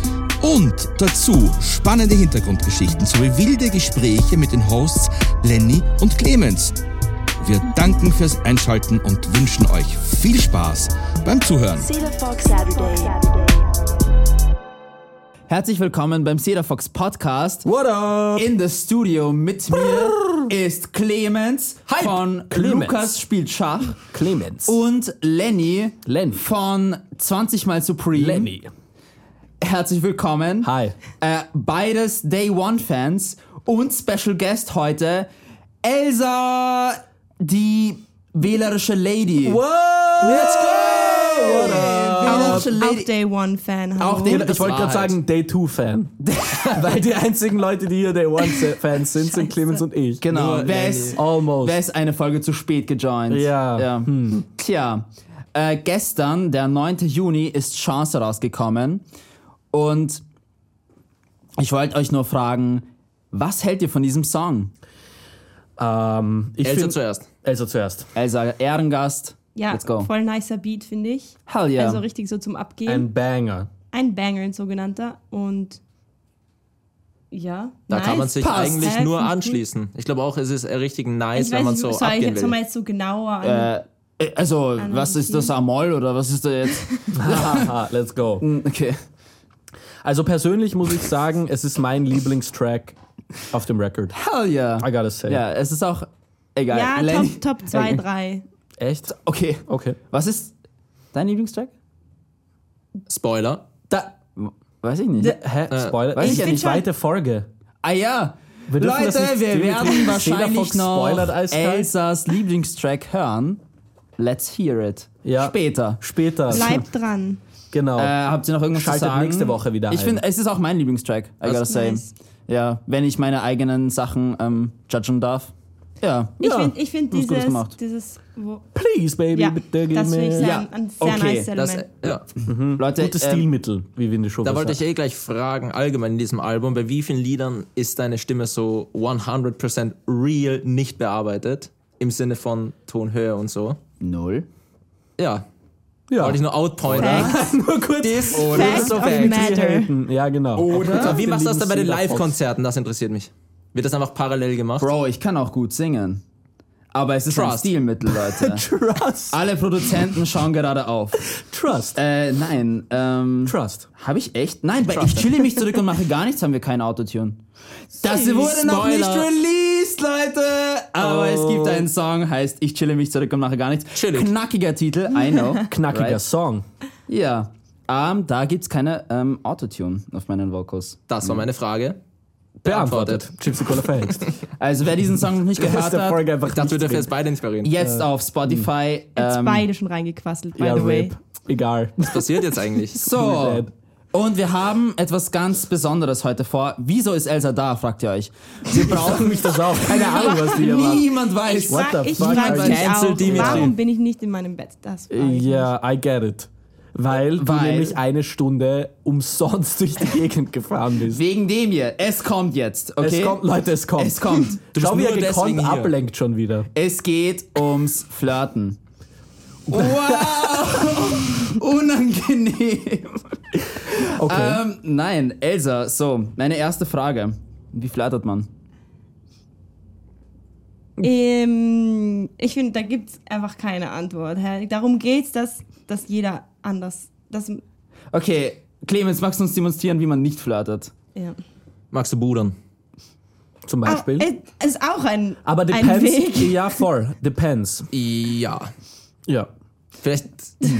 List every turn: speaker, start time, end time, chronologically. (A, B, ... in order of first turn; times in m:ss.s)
0:00.4-0:06.8 A
0:07.4-0:11.9 A
0:11.8-0:13.7 B
0:15.5-0:17.6 C
0:17.6-0:18.5 D
0:18.4-0:24.0 C
0:19.7-0:20.5 D
0:21.9-0:23.2 D
0:24.0-0:24.8 D
0:24.6-0:28.5 C
0:26.0-0:26.4 D
0:28.1-0:28.7 D
0:29.6-0:35.3 C
0:30.6-0:31.0 D
0:35.8-0:39.6 C
0:39.4-0:42.7 D
0:40.2-0:43.1 C
0:40.2-0:42.5 E
0:42.2-0:44.5 F
0:44.0-0:45.2 E
0:44.2-0:46.1 D
0:46.2-0:46.9 C
0:46.7-0:51.8 D
0:48.4-0:48.7 F
0:49.2-0:49.8 F
0:50.2-0:59.0 C
0:50.3-0:51.2 E
0:53.3-0:54.4 D
0:59.7-1:00.2 C
1:01.6-1:04.7 C
1:05.8-1:08.1 D
1:06.6-1:07.3 E
1:08.1-1:10.1 C
1:09.6-1:13.1 F
1:11.5-1:12.0 C
1:12.8-1:13.7 D
1:13.9-1:15.8 F
1:17.3-1:19.6 F
1:17.9-1:22.6 E
1:18.4-1:19.0 C
1:21.3-1:23.7 F
1:23.4-1:27.7 C
1:24.8-1:25.5 F
1:26.7-1:27.1 F
1:27.1-1:28.4 D
1:28.4-1:29.0 C
1:30.0-1:33.0 D
1:33.5-1:34.1 D
1:34.1-1:38.0 C
1:34.8-1:35.4 D
1:36.7-1:38.4 F
1:38.8-1:39.1 D
1:39.1-1:40.5 C
1:39.7-1:40.0 D
1:41.1-1:41.7 C
1:43.1-1:43.6 E
1:43.9-1:44.2 D
1:44.4-1:45.4 C
1:45.2-1:47.5 D
1:45.7-1:46.0 E
1:46.1-1:46.8 C
1:46.1-1:46.8 F
1:47.8-1:53.6 C
1:48.7-1:51.9 D
1:54.2-1:56.0 C
1:55.2-1:56.8 D
1:56.5-1:57.4 F
1:57.7-1:58.1 D
1:58.0-2:06.4 C
1:58.7-2:00.2 D
2:01.4-2:01.7 E
2:01.6-2:02.1 F
2:06.4-2:08.6 F
2:06.4-2:06.8 D
2:07.1-2:07.7 C
2:08.7-2:10.5 D
2:09.3-2:11.9 F
2:10.4-2:11.5 C
2:11.6-2:12.2 E
2:12.4-2:14.8 D
2:12.8-2:13.4 C
2:14.4-2:23.8 E
2:24.0-2:24.5 C
2:25.2-2:25.4 E
2:26.1-2:32.4 D
2:26.2-2:27.4 E
2:26.9-2:27.5 F
2:28.0-2:29.4 E
2:28.4-2:29.9 F
2:30.5-2:31.2 C
2:30.7-2:34.9 E
2:34.8-2:36.2 C
2:36.9-2:38.6 C
2:37.3-2:37.7 E
2:38.2-2:40.2 D
2:39.3-2:41.3 C
2:41.3-2:42.0 D
2:42.0-2:47.4 C
2:43.4-2:43.9 D
2:44.9-2:45.4 E
2:47.9-2:56.2 C
2:48.0-2:49.3 E
2:51.0-2:51.9 D
2:53.9-2:54.3 E
2:55.7-2:56.6 D
2:57.1-3:01.5 C
3:01.1-3:02.0 E
3:02.6-3:04.3 D
3:02.6-3:03.9 E
3:04.6-3:06.2 C
3:05.6-3:07.1 D
3:06.5-3:07.7 E
3:07.6-3:09.7 C
3:07.8-3:08.7 D
3:09.2-3:11.1 F
3:10.6-3:13.7 D
3:12.1-3:13.1 E
3:13.0-3:23.5 C
3:18.8-3:21.1 D
3:19.9-3:25.7 F
3:21.7-3:23.7 D
3:22.2-3:23.7 E
3:25.1-3:31.2 D
3:27.3-3:28.0 C
3:31.1-3:33.4 C
3:33.0-3:36.7 D
3:34.0-3:34.6 C
3:34.7-3:35.9 E
3:36.7-3:38.8 C
3:39.7-3:41.0 D
3:39.7-3:48.5 C
3:44.1-3:44.6 D
3:51.0-3:57.6 F
3:58.1-4:00.9 C
4:01.9-4:02.5 E
4:03.7-4:04.3 D
4:03.8-4:06.8 F
4:05.4-4:07.9 D
4:07.9-4:08.7 E
4:10.0-4:10.6 E